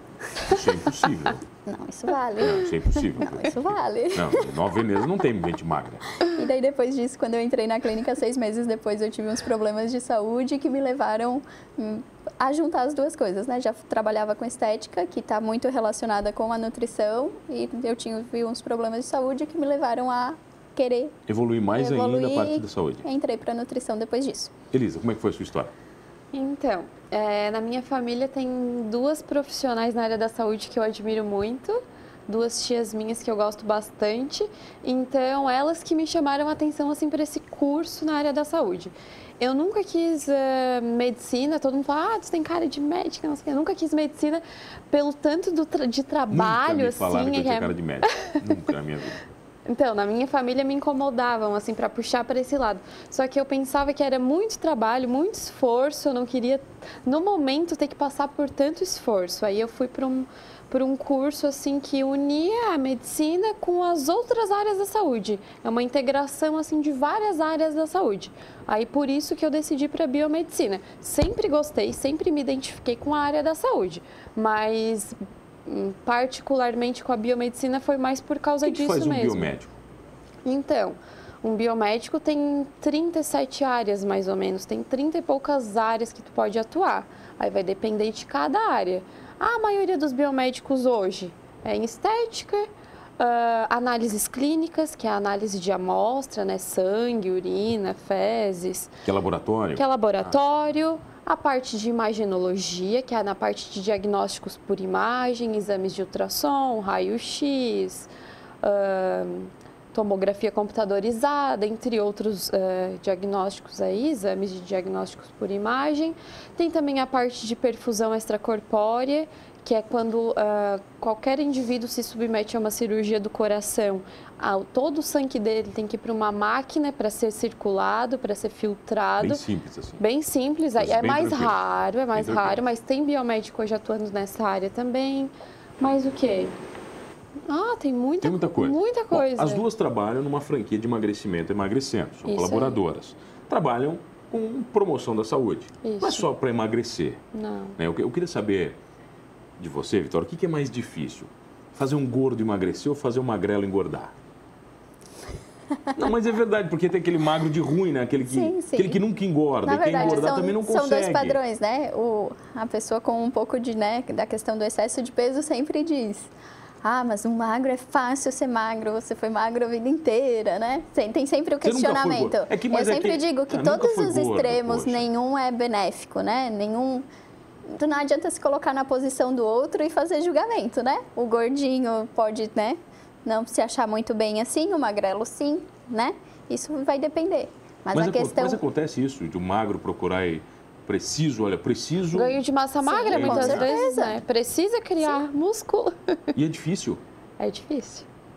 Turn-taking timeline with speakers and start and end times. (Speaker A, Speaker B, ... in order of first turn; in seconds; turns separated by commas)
Speaker A: 0.4-1.4, Speaker B: 1.6-4.5, Speaker A: 2.4-3.6, Speaker A: 4.1-6.0, Speaker B: 6.2-21.2, Speaker A: 21.3-23.0, Speaker B: 21.8-24.5, Speaker A: 24.7-25.7, Speaker C: 26.3-47.7, Speaker A: 46.3-49.2, Speaker C: 49.6-79.5, Speaker A: 78.6-79.7, Speaker C: 80.4-98.9, Speaker A: 99.0-100.3, Speaker C: 99.7-108.1, Speaker C: 108.6-129.4, Speaker A: 129.2-130.0, Speaker C: 130.0-136.5, Speaker A: 130.8-131.6, Speaker A: 132.1-132.6, Speaker C: 137.4-139.6, Speaker A: 138.2-147.2, Speaker C: 142.2-142.8, Speaker C: 145.8-146.3, Speaker C: 147.3-147.8, Speaker A: 147.8-148.8, Speaker A: 149.6-154.1, Speaker A: 155.9-161.4, Speaker B: 158.2-159.0, Speaker B: 159.6-166.3, Speaker B: 166.8-177.1, Speaker A: 171.6-175.1, Speaker B: 177.7-188.6, Speaker A: 187.9-192.4, Speaker C: 192.1-196.3, Speaker B: 192.8-194.2, Speaker A: 193.1-193.7, Speaker A: 196.3-197.0, Speaker C: 197.4-198.1